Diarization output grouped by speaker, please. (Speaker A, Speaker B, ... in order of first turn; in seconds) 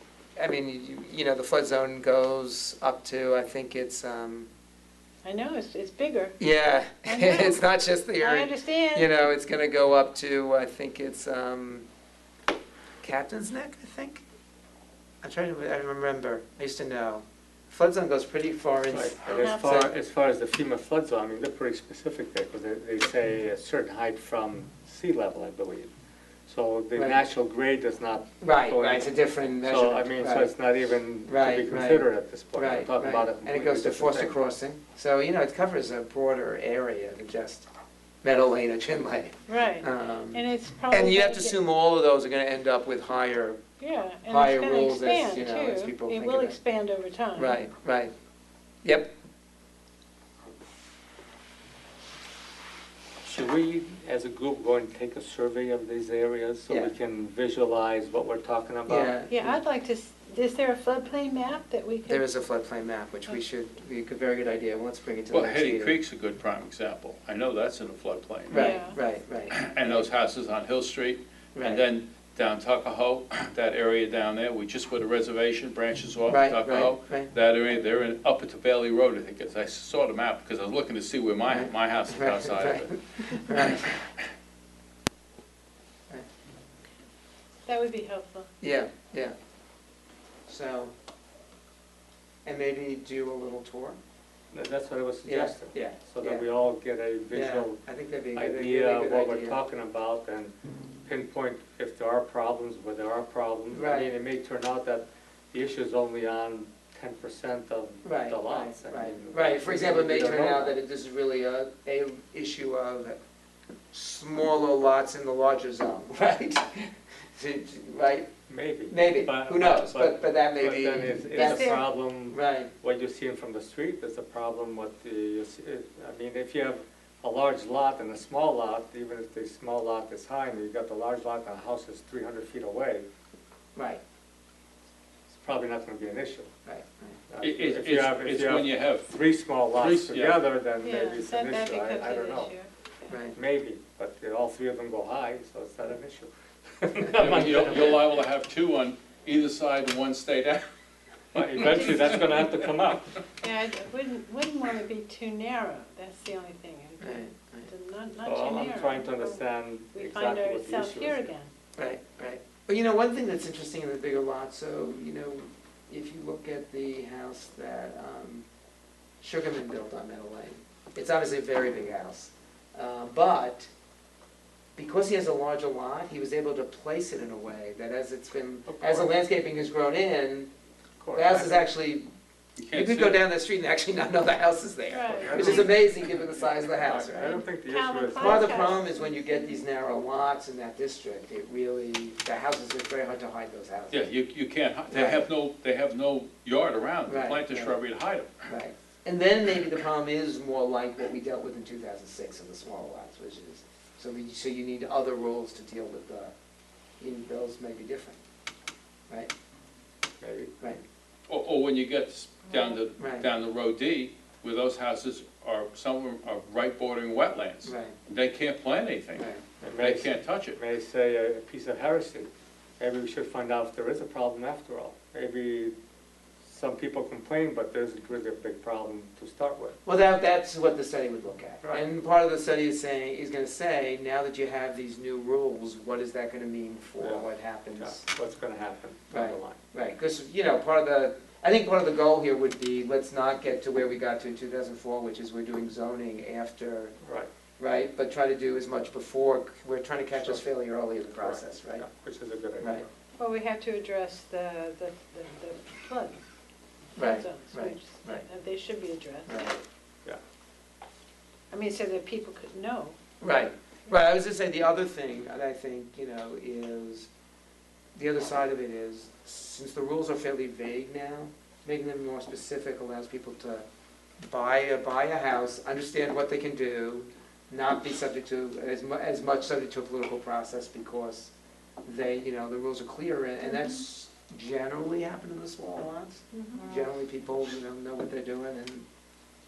Speaker A: 0.3-4.5, 6.4-11.9, 13.0-14.2, 15.2-19.9, 26.9-27.2, 28.4-30.5, 31.2-37.7, 38.2-43.6, 44.3-46.6, 47.3-48.1, 48.8-49.1, 58.9-59.6, 62.1-66.0, 68.5-70.1, 71.5-71.8, 76.3-77.3, 81.5-84.1, 88.6-89.3, 90.5-90.9, 92.4-94.0, 95.2-96.5, 97.3-99.6, 103.7-104.1, 108.0-113.2, 113.9-118.3, 118.9-122.7, 133.8-134.0, 136.7-137.2, 143.1-143.3, 157.0-157.7, 161.8-168.4, 169.2-173.7, 174.8-180.5, 181.1-182.1, 182.7-187.4, 188.1-194.1, 194.9-195.2, 197.0-197.8, 198.4-206.3, 207.0-208.2, 213.0-213.3, 217.6-217.9, 219.2-219.4, 229.8-238.1, 239.1-246.9, 247.6-251.8, 252.6-252.8, 256.9-258.2, 259.3-259.6, 263.2-267.1, 267.9-273.6, 274.2-288.9
Speaker B: 5.2-6.4, 7.0-7.6, 8.2-9.2, 19.3-19.8, 39.5-41.5, 43.8-47.6, 59.3-62.2, 68.5-69.0, 87.7-88.5, 121.3-121.8, 140.8-142.7, 153.4-161.5, 184.9-185.6, 187.1-189.6, 253.2-256.2, 257.0-259.4, 261.5-262.9, 286.3-286.7
Speaker C: 18.8-25.9, 26.5-34.4, 53.2-59.2, 94.5-97.8, 98.3-100.5, 101.0-110.8, 118.5-133.1, 135.3-136.5, 137.3-142.5, 143.3-148.1, 151.3-153.2, 158.2-161.3, 178.7-179.2, 181.0-181.6, 185.2-188.7, 210.2-210.5, 219.6-225.7, 226.4-229.8, 237.0-239.6, 247.0-247.3, 250.2-250.4, 251.2-252.8
Speaker D: 65.3-68.7, 69.5-82.9, 137.4-140.4, 147.2-150.6, 151.3-152.2, 182.6-183.2, 193.9-198.5, 211.3-220.6